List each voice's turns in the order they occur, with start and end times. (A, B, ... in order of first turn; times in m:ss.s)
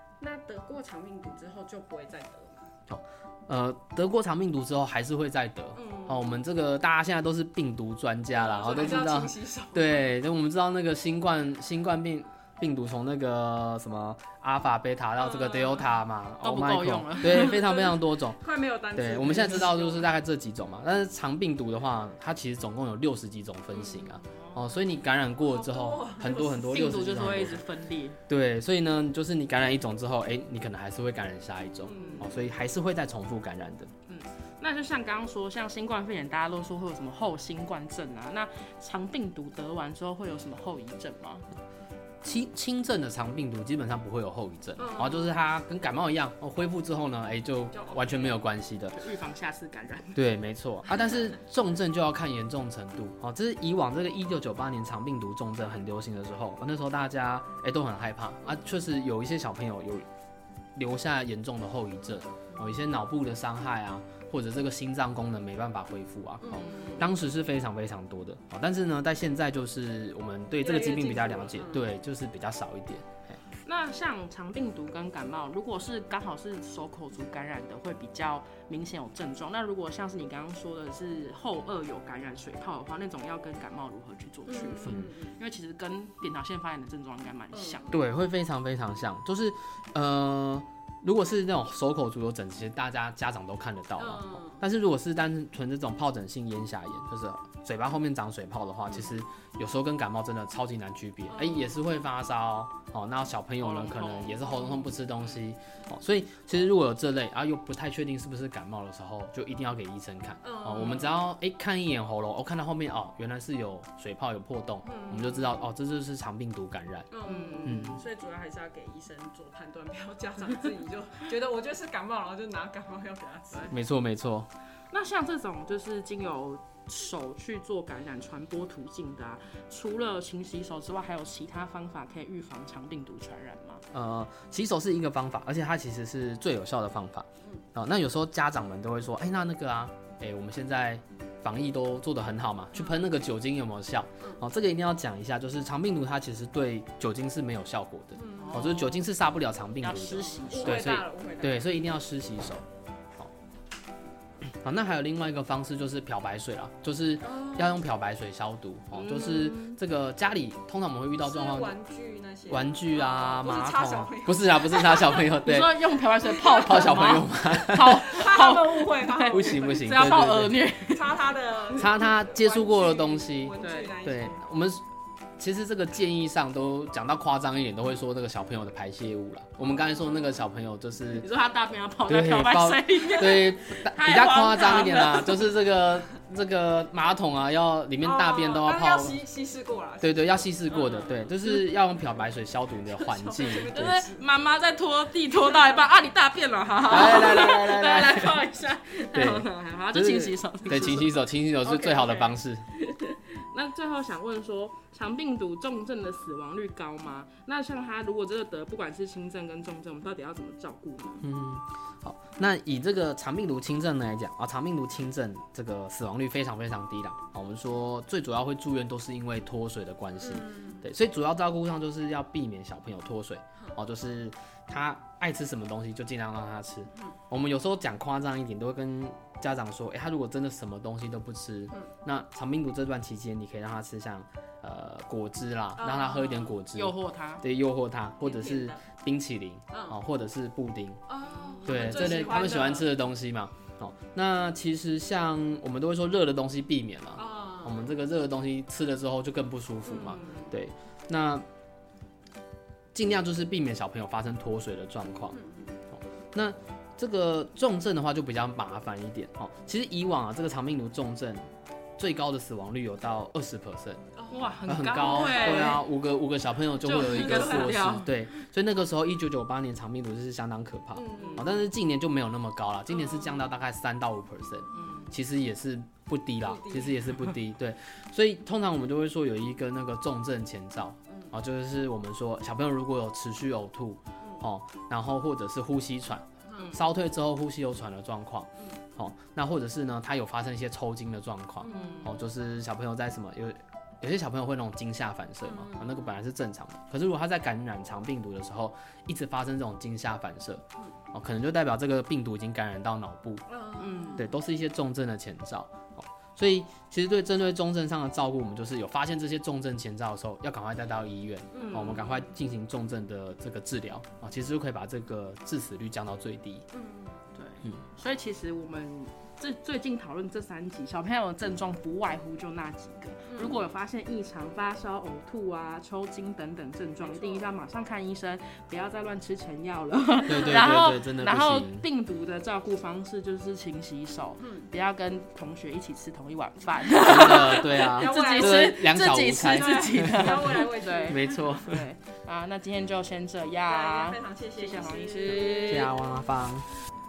0:00.2-0:02.7 A
0:02.9-0:18.4 B
0:05.8-0:06.4 A
0:08.3-0:10.0 A
0:15.2-0:15.9 A
0:16.4-0:17.6 C
0:17.3-0:20.1 A
0:18.9-0:27.7 B
0:23.8-0:24.1 A
0:24.1-0:24.7 C
0:25.4-0:26.7 A
0:26.5-0:28.2 C
0:28.3-0:33.9 B
0:31.8-0:32.3 A
0:31.9-0:32.4 C
0:34.1-0:41.5 C
0:42.2-0:49.0 B
0:44.8-0:45.4 A
0:47.7-0:48.5 A
0:48.9-0:50.2 C
0:50.2-1:00.1 B
1:00.8-1:13.4 B
1:06.5-1:07.1 C
1:10.6-1:11.9 A
1:13.6-1:28.0 C
1:24.5-1:25.4 A
1:27.5-1:28.0 A
1:27.9-1:57.1 B
1:34.0-1:34.6 A
1:38.9-1:39.2 A
1:41.3-1:41.8 A
1:43.6-1:44.5 C
1:50.4-1:51.2 A
1:54.8-1:55.6 A
1:57.1-2:03.8 A
1:57.3-1:58.0 C
1:57.6-1:58.0 B
2:03.7-2:04.5 B
2:04.9-2:13.8 C
2:13.9-2:32.6 B
2:28.2-2:28.9 A
2:28.4-2:28.9 C
2:29.8-2:30.8 C
2:30.5-2:31.8 A
2:34.4-2:41.8 B
2:37.2-2:37.8 A
2:38.9-2:39.8 C
2:41.2-2:45.3 A
2:42.5-2:45.8 B
2:45.4-2:51.1 C
2:46.3-2:47.0 A
2:46.6-2:48.1 B
2:47.9-2:50.1 A
2:49.3-2:50.6 B
2:50.9-2:54.4 A
2:51.8-2:54.8 B
2:53.6-2:53.9 C
2:55.4-3:01.3 B
2:59.7-3:00.2 A
3:01.1-3:05.4 C
3:02.1-3:09.2 B
3:04.9-3:05.2 A
3:08.0-3:11.4 A
3:10.0-3:14.0 B
3:13.0-3:14.3 A
3:13.6-3:21.2 C
3:15.3-3:15.8 A
3:16.9-3:18.4 B
3:19.1-3:22.7 B
3:21.7-3:22.2 C
3:21.8-3:22.3 A
3:22.7-3:31.3 C
3:31.2-4:01.0 B
3:40.2-3:40.8 A
3:55.8-3:56.6 A
3:56.7-3:57.4 C
3:58.2-3:58.8 A
3:59.7-4:00.0 A
4:01.1-4:02.9 A
4:01.3-4:02.4 C
4:01.7-4:11.4 B
4:07.2-4:08.0 A
4:09.8-4:10.5 A
4:12.9-4:15.4 B
4:15.3-4:15.8 A
4:16.3-4:21.5 B
4:22.0-4:24.0 B
4:24.2-4:25.8 A
4:24.3-4:25.8 C
4:24.7-5:03.4 B
4:26.8-4:28.4 C
4:26.9-4:27.8 A
4:30.9-4:31.6 A
4:31.2-4:31.5 C
4:32.9-4:33.5 A
4:34.7-4:35.0 A
4:34.7-4:35.2 C
4:36.4-4:37.1 A
4:41.1-4:41.3 A
4:44.2-4:44.5 A
4:46.5-4:46.8 A
4:51.6-4:52.1 A
4:51.6-4:52.2 C
4:55.4-4:56.2 A
5:03.5-5:04.2 A
5:03.8-5:04.3 C
5:04.2-5:16.7 B
5:11.5-5:12.0 A
5:11.6-5:12.2 C
5:16.7-5:17.2 A
5:17.4-5:46.0 C
5:23.3-5:23.7 A
5:27.0-5:27.5 A
5:30.3-5:30.6 A
5:30.3-5:31.8 B
5:34.4-5:34.7 A
5:37.0-5:40.4 B
5:38.0-5:38.9 A
5:39.5-5:41.2 A
5:41.1-5:41.8 B
5:43.6-5:45.9 A
5:45.7-5:46.7 B